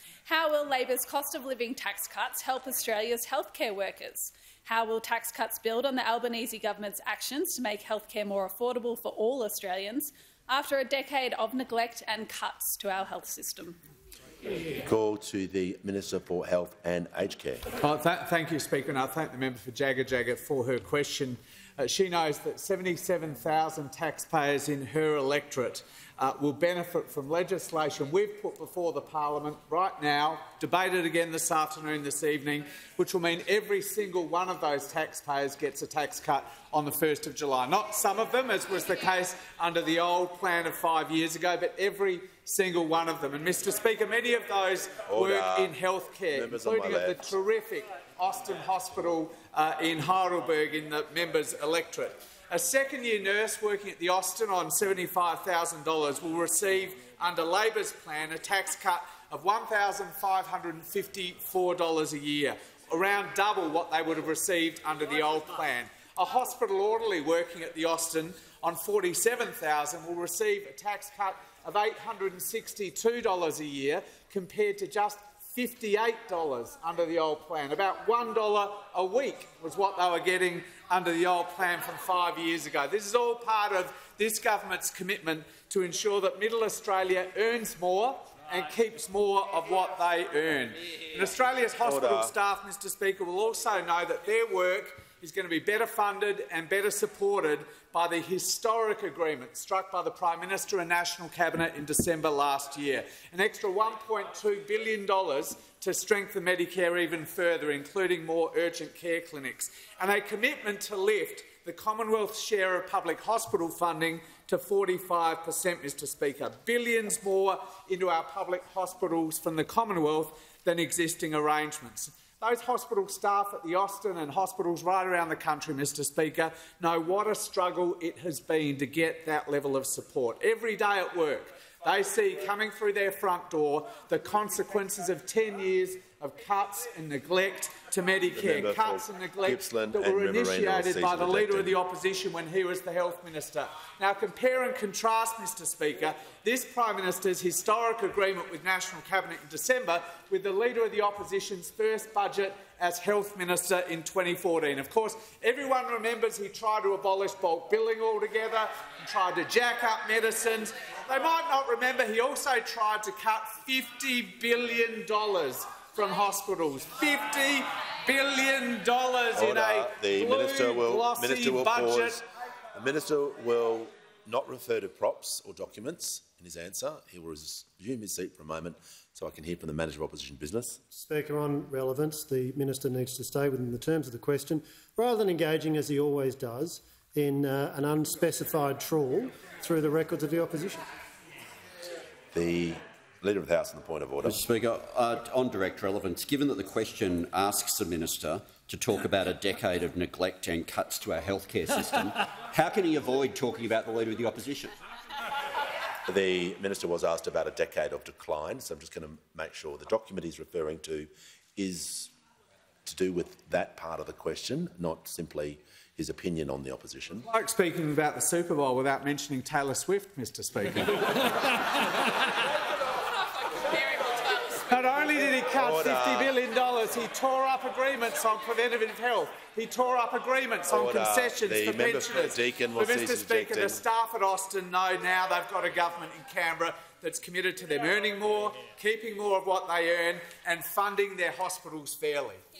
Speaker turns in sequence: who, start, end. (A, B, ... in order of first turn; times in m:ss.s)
0:00.2-0:13.8 A
0:14.8-0:17.6 B
0:17.8-2:52.2 C
0:45.1-0:45.7 B
0:46.3-0:47.3 B
1:31.8-1:32.3 B
2:18.3-2:21.8 B
2:49.3-3:00.8 B
3:00.9-3:10.8 D
3:12.3-3:14.4 B
3:14.2-3:24.7 E
3:26.1-3:32.1 B
3:32.8-3:37.2 B
3:37.3-3:41.3 C
3:44.6-4:02.4 C
3:45.5-3:46.3 B
3:50.7-3:53.8 B